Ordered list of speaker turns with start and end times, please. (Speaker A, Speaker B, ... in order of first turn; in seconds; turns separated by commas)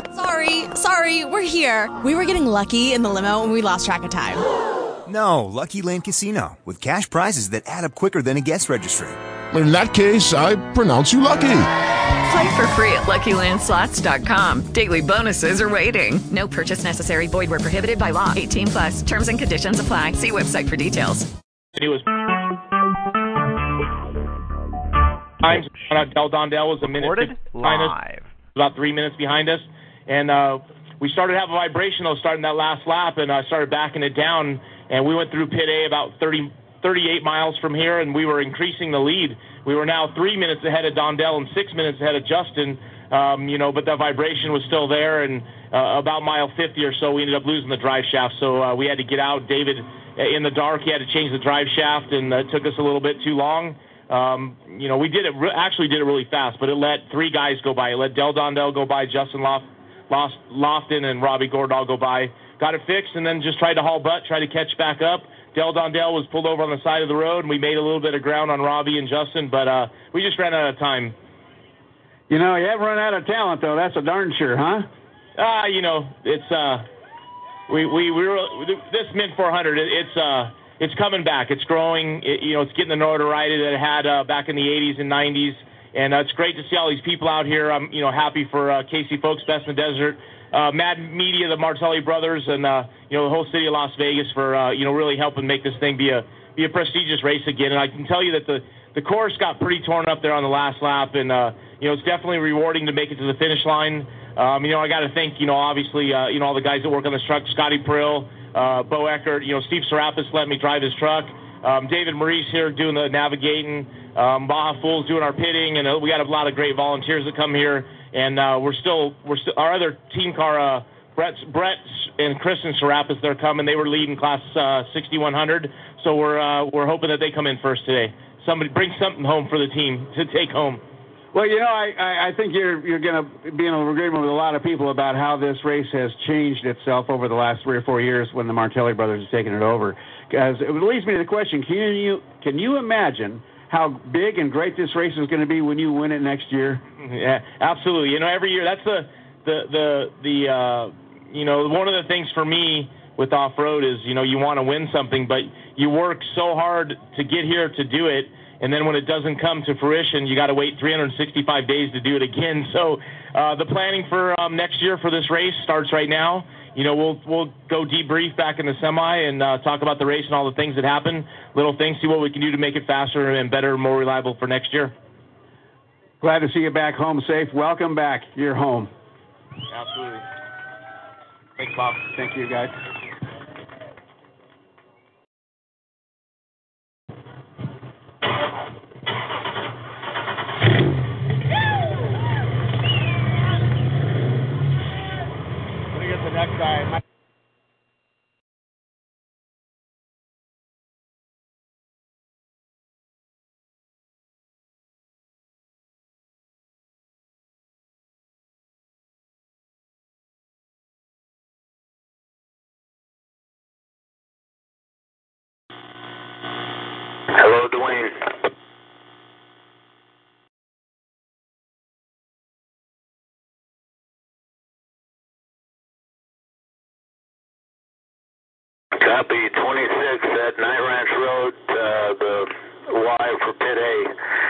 Speaker A: 0.1-4.4, Speaker B: 5.0-9.2, Speaker C: 9.5-11.7, Speaker D: 12.3-21.3, Speaker E: 21.8-22.0, Speaker E: 25.4-27.9, Speaker B: 27.0-28.2, Speaker E: 28.5-71.2, Speaker F: 72.3-74.9, Speaker E: 75.4-76.8, Speaker E: 77.7-130.8, Speaker F: 131.3-146.8, Speaker E: 147.0-174.9, Speaker F: 176.2-178.9, Speaker F: 179.7-180.2, Speaker F: 181.6-182.7, Speaker G: 217.3-218.3, Speaker G: 229.0-234.1